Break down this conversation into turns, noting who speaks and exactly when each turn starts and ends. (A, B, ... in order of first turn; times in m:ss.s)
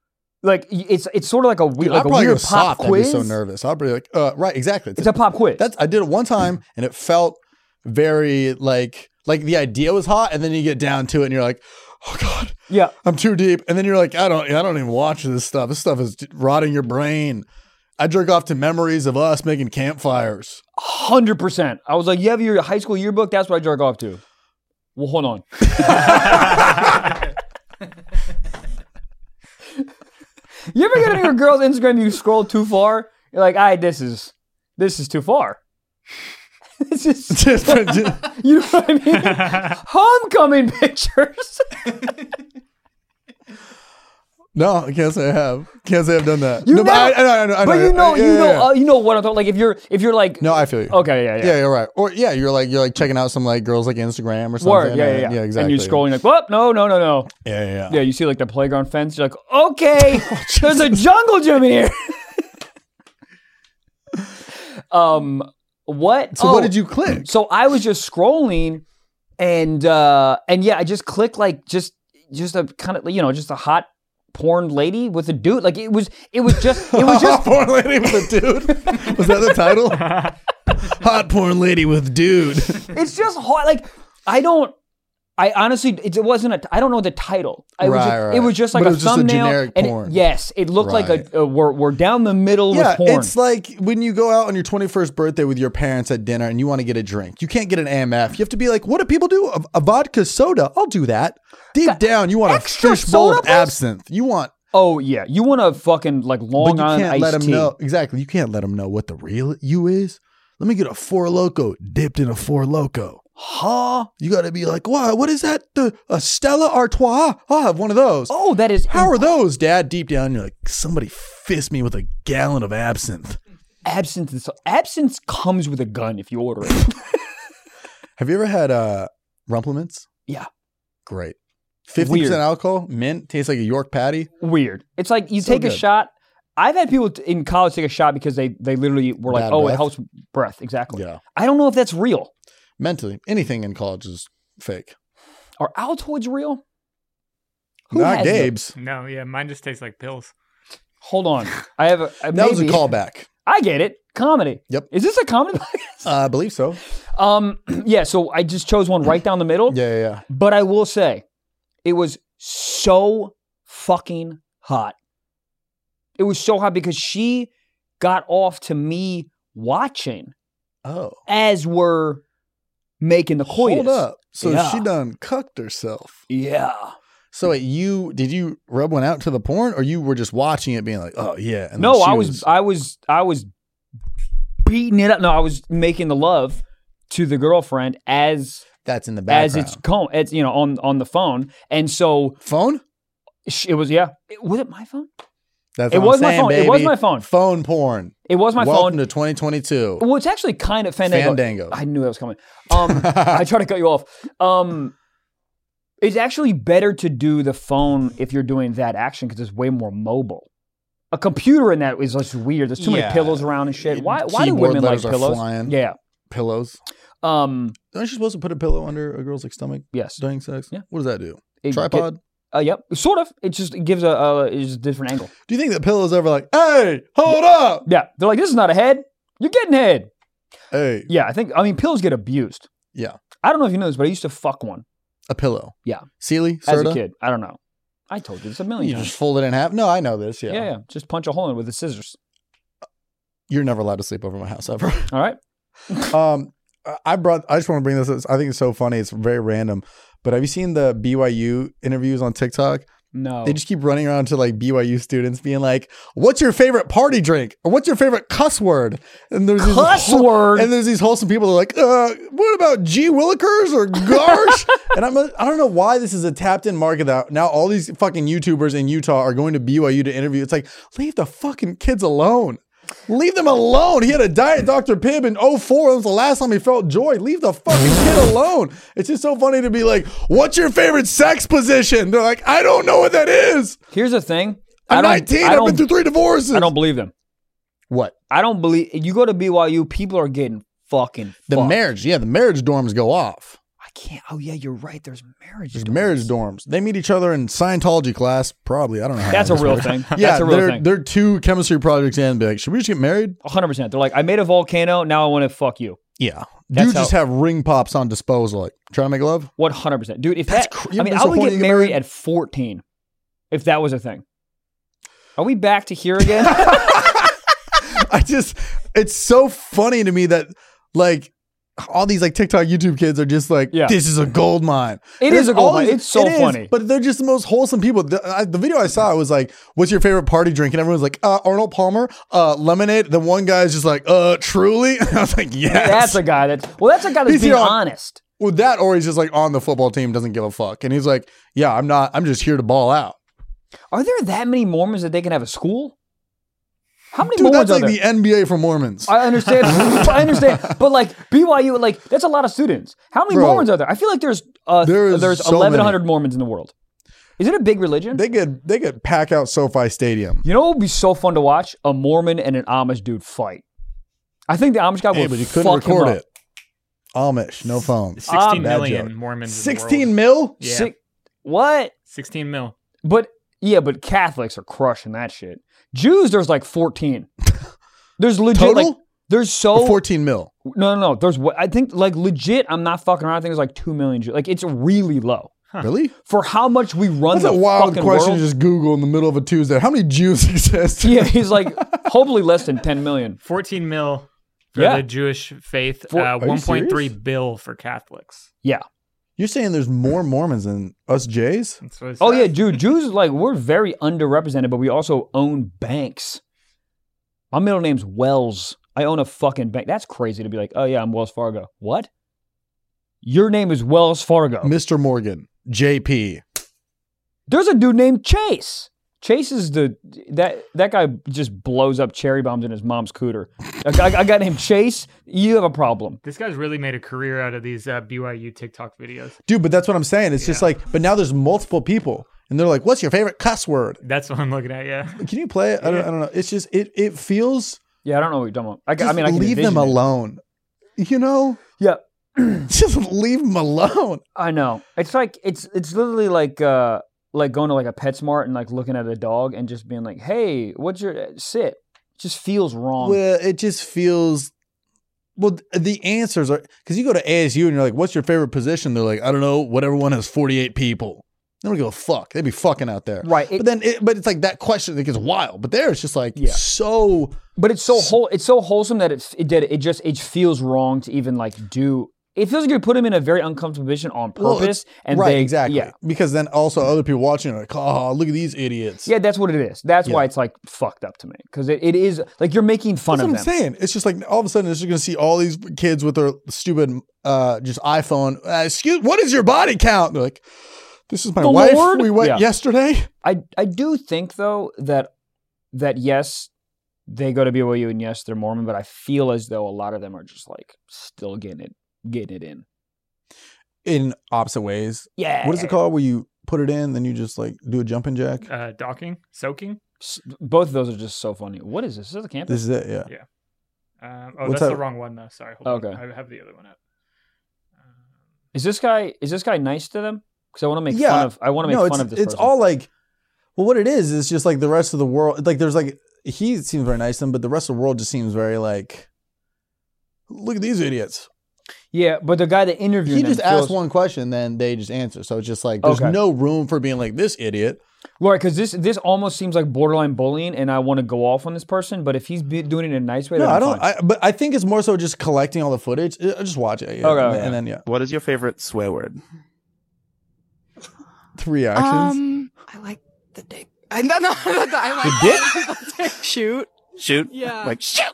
0:00.4-0:03.4 A
0:01.8-0:17.4 B
0:05.0-0:05.6 A
0:12.7-0:12.9 A
0:18.0-0:20.6 B
0:20.8-0:24.2 A
0:25.0-0:26.9 A
0:25.8-0:26.6 B
0:30.7-0:35.6 A
0:36.8-0:41.9 A
0:37.3-0:38.3 B
0:44.5-0:48.7 B
0:46.6-0:51.6 A
0:50.4-0:56.0 B
0:54.6-0:57.3 A
0:57.4-0:58.0 B
0:57.9-1:02.4 A
1:00.1-1:01.0 B
1:04.9-1:08.8 A
1:06.4-1:07.3 B
1:09.4-1:17.5 A
1:16.5-1:22.9 B
1:18.8-1:19.5 A
1:22.9-1:24.7 A
1:25.4-1:33.3 A
1:27.8-1:30.2 B
1:30.8-1:31.2 B
1:32.7-1:44.5 B
1:41.8-1:43.7 A
1:44.7-1:47.7 A
1:46.6-1:53.2 B
1:53.4-1:54.1 A
1:54.2-1:58.3 B
1:58.3-1:59.3 A
1:58.9-2:03.4 B
2:03.8-2:06.9 A
2:08.2-2:10.0 B
2:11.0-2:11.4 B
2:11.9-2:14.3 B
2:12.0-2:12.4 A
2:14.4-2:22.3 A
2:15.4-2:15.8 B
2:19.3-2:19.9 B
2:20.9-2:21.2 B
2:22.8-2:24.9 B
2:25.6-2:26.6 A
2:27.9-2:28.5 A
2:27.9-2:28.8 B
2:28.8-2:30.3 C
2:31.0-2:32.9 A
2:32.3-2:33.3 B
2:33.4-2:36.1 A
2:36.0-2:36.8 B
2:37.1-2:39.8 A
2:39.7-2:40.2 B
2:40.3-2:41.2 A
2:41.8-2:44.9 A
2:46.2-2:50.3 A
2:50.8-2:51.2 B
2:51.3-2:52.2 A
2:53.0-2:54.9 A
2:53.4-2:56.2 B
2:56.3-2:56.9 A
2:57.3-3:02.4 B
3:01.8-3:03.5 A
3:04.6-3:08.6 A
3:08.8-3:09.8 B
3:09.3-3:12.4 A
3:12.4-3:12.8 B
3:13.5-3:15.1 A
3:15.8-3:20.0 B
3:15.9-3:17.3 A
3:18.3-3:19.0 A
3:20.0-3:24.9 A
3:21.0-3:21.8 B
3:22.7-3:23.5 B
3:26.0-3:30.5 A
3:31.1-3:36.0 A
3:32.8-3:35.7 B
3:36.3-3:36.8 B
3:37.2-3:37.8 A
3:37.9-3:42.2 B
3:39.9-3:40.8 A
3:41.6-3:45.3 A
3:45.5-3:47.8 B
3:47.8-3:50.1 A
3:50.7-3:51.1 B
3:51.1-3:52.7 A
3:53.4-3:54.8 A
3:55.3-3:57.0 B
3:56.6-3:57.6 A
3:58.1-3:59.1 A
3:58.8-4:00.7 B
4:00.5-4:02.2 A
4:03.5-4:05.1 B
4:05.1-4:05.4 A
4:06.1-4:12.9 B
4:13.1-4:13.6 A
4:13.4-4:43.8 B
4:19.6-4:20.7 A
4:43.9-4:45.9 A
4:44.9-4:46.7 B
4:46.5-4:47.1 A
4:47.9-4:48.1 B
4:48.3-4:51.8 A
4:51.5-4:53.6 B
4:53.8-4:56.3 A
4:55.7-5:03.4 B
4:59.3-5:00.8 A
5:03.4-5:06.0 A
5:06.2-5:09.5 B
5:06.7-5:07.1 A
5:09.6-5:12.8 A
5:10.5-5:12.0 B
5:13.5-5:14.2 A
5:15.4-5:17.0 A
5:16.3-5:36.2 B
5:23.7-5:24.0 A
5:25.2-5:26.7 A
5:35.7-5:38.2 A
5:37.2-5:37.8 B
5:38.4-5:43.2 B
5:43.9-5:45.9 A
5:47.1-5:48.0 A
5:47.3-5:50.7 B
5:49.1-5:56.7 A
5:53.3-5:53.7 B
5:54.8-5:56.0 B
5:57.4-5:58.2 A
5:58.1-6:00.4 B
6:00.4-6:03.6 A
6:04.5-6:06.2 A
6:05.1-6:06.2 B
6:07.1-6:10.6 B
6:08.2-6:10.9 C
6:08.3-6:08.7 A
6:10.6-6:11.9 A
6:12.1-6:12.8 C
6:13.0-6:17.3 A
6:18.2-6:20.0 A
6:18.5-6:19.0 B
6:19.7-6:20.5 B
6:20.6-6:25.5 A
6:25.8-6:26.1 B
6:26.3-6:28.4 A
6:27.3-6:32.1 B
6:31.0-6:33.4 A
6:33.4-6:38.5 C
6:34.8-6:35.1 A
6:36.4-6:37.1 B
6:39.4-6:41.8 B
6:41.8-6:42.8 C
6:42.2-6:46.4 A
6:47.5-6:52.1 A
6:53.2-6:54.7 A
6:54.6-6:56.4 B
6:57.5-7:06.2 A
7:06.2-7:09.4 C
7:09.5-7:14.0 B
7:10.4-7:10.7 C
7:14.0-7:15.2 C
7:15.2-7:17.8 B
7:18.0-7:20.0 A
7:19.0-7:20.4 B
7:21.0-7:21.6 B
7:21.8-7:22.7 A
7:22.7-7:24.2 B
7:24.4-7:33.2 A
7:33.0-7:34.5 B
7:35.4-7:47.4 B
7:43.2-7:43.6 A
7:46.4-7:46.6 A
7:47.6-7:55.9 A
7:47.9-7:48.2 B
7:54.4-7:59.1 B
7:59.0-8:03.5 A
8:03.1-8:10.4 B
8:11.1-8:13.1 B
8:11.4-8:12.4 A
8:13.2-8:15.1 A
8:15.7-8:16.5 A
8:17.1-8:22.6 A
8:23.8-8:28.5 B
8:25.2-8:25.8 A
8:28.4-8:29.8 C
8:30.0-8:32.6 A
8:32.5-8:33.1 B
8:34.0-8:36.8 C
8:34.4-8:34.8 B
8:35.6-8:36.0 A
8:38.5-8:42.5 A
8:40.9-8:42.9 B
8:43.6-8:49.1 B
8:50.3-8:51.3 B
8:51.9-8:53.8 A
8:53.0-8:57.8 B
8:55.8-8:56.2 A
8:58.2-9:03.8 A
9:03.4-9:07.8 B
9:07.0-9:07.6 A
9:07.8-9:09.2 D
9:11.4-9:12.2 B
9:11.8-9:16.7 E
9:17.0-9:17.8 D
9:17.3-9:17.8 E